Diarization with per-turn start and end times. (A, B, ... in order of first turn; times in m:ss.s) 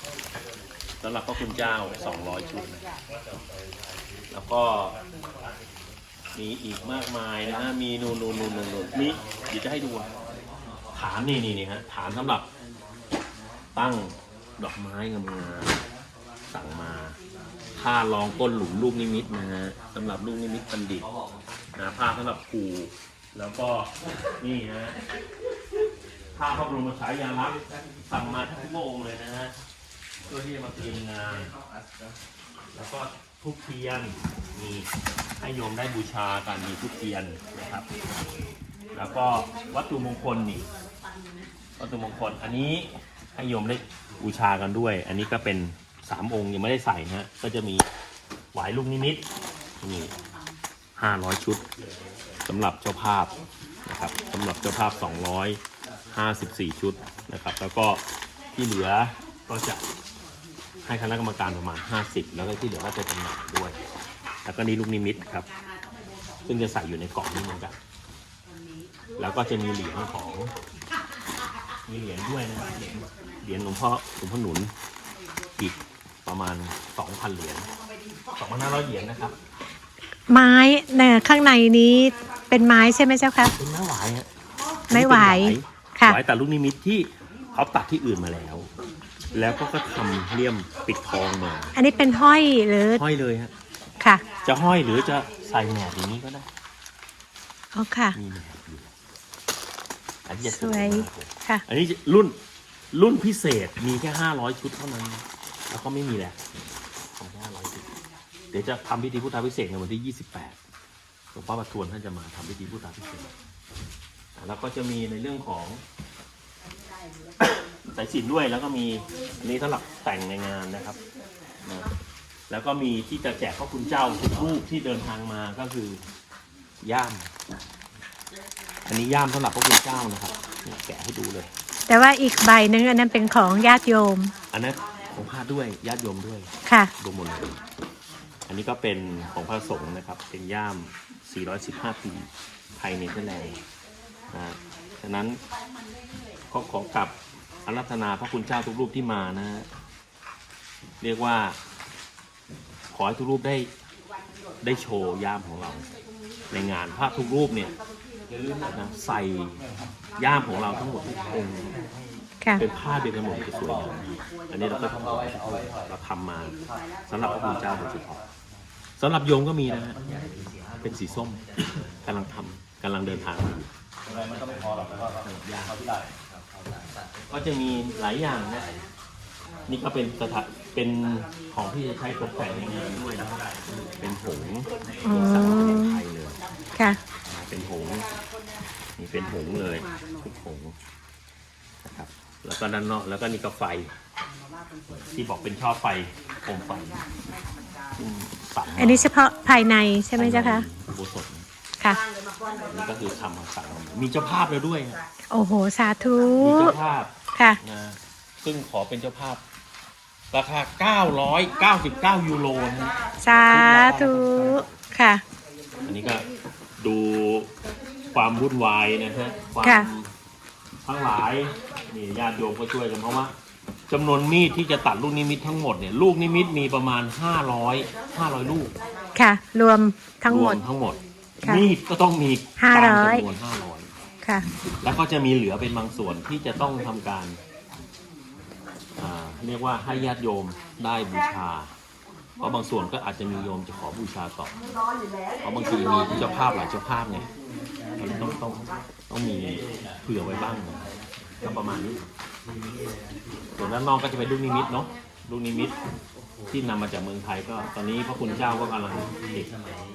0:01.0-0:02.8 A
0:04.3-0:05.0 A
0:06.3-0:10.1 A
0:10.9-0:12.5 A
0:13.8-0:15.8 A
0:16.5-0:17.2 A
0:17.8-0:21.1 A
0:21.8-0:25.0 A
0:26.3-0:29.5 A
0:30.3-0:31.5 A
0:32.7-0:34.9 A
0:35.4-0:37.9 A
0:38.9-0:40.7 A
0:41.8-0:47.8 A
0:48.5-0:49.2 A
0:49.8-0:50.1 A
0:51.0-0:51.6 A
0:52.5-0:55.6 A
0:56.1-0:58.0 A
0:58.6-0:59.8 A
1:00.8-1:03.8 A
1:04.4-1:05.5 A
1:06.4-1:07.8 A
1:09.2-1:10.5 A
1:11.9-1:14.7 A
1:15.6-1:17.7 A
1:18.3-1:19.4 A
1:20.3-1:23.5 B
1:23.5-1:24.3 A
1:24.9-1:26.2 B
1:24.9-1:28.7 A
1:29.3-1:31.7 A
1:31.7-1:33.0 B
1:32.9-1:33.5 A
1:34.0-1:34.2 B
1:34.4-1:36.5 A
1:37.7-1:38.2 B
1:38.2-1:38.9 A
1:40.3-1:42.4 A
1:40.4-1:41.6 B
1:42.9-1:46.4 A
1:47.2-1:47.9 A
1:48.5-1:50.6 A
1:51.3-1:53.3 A
1:54.4-1:55.8 A
1:57.4-2:01.0 A
2:02.5-2:06.0 A
2:06.8-2:07.3 A
2:08.8-2:11.5 A
2:11.9-2:14.3 B
2:14.5-2:17.6 A
2:16.7-2:16.9 B
2:18.5-2:23.6 A
2:24.3-2:25.4 A
2:26.5-2:27.1 A
2:27.6-2:29.7 A
2:31.0-2:31.6 A
2:32.9-2:33.7 A
2:34.6-2:35.8 A
2:36.5-2:37.7 A
2:38.7-2:39.6 A
2:40.2-2:41.7 A
2:42.6-2:48.2 A
2:49.0-2:50.0 A
2:50.8-2:51.4 A
2:52.0-2:53.7 A
2:55.1-2:55.8 A
2:57.3-2:58.7 A
2:59.7-3:03.3 A
3:04.0-3:06.4 A
3:05.0-3:06.0 B
3:07.2-3:08.0 A
3:09.0-3:10.8 A
3:11.8-3:13.9 A
3:15.1-3:17.0 A
3:18.0-3:19.1 A
3:18.8-3:20.7 B
3:20.2-3:21.5 A
3:22.7-3:25.0 A
3:25.3-3:26.7 B
3:26.4-3:29.4 A
3:30.3-3:32.9 A
3:33.2-3:35.2 B
3:33.5-3:34.6 A
3:35.8-3:36.3 A
3:36.8-3:37.5 A
3:38.1-3:40.1 A
3:39.6-3:39.9 B
3:40.8-3:43.3 A
3:43.9-3:48.7 A
3:49.2-3:50.6 B
3:50.3-3:53.9 A
3:52.6-3:53.2 B
3:54.8-3:57.4 A
3:59.0-4:01.7 A
4:02.4-4:04.5 A
4:05.4-4:07.3 A
4:08.0-4:10.8 A
4:11.4-4:12.0 A
4:13.5-4:15.7 A
4:16.5-4:19.5 A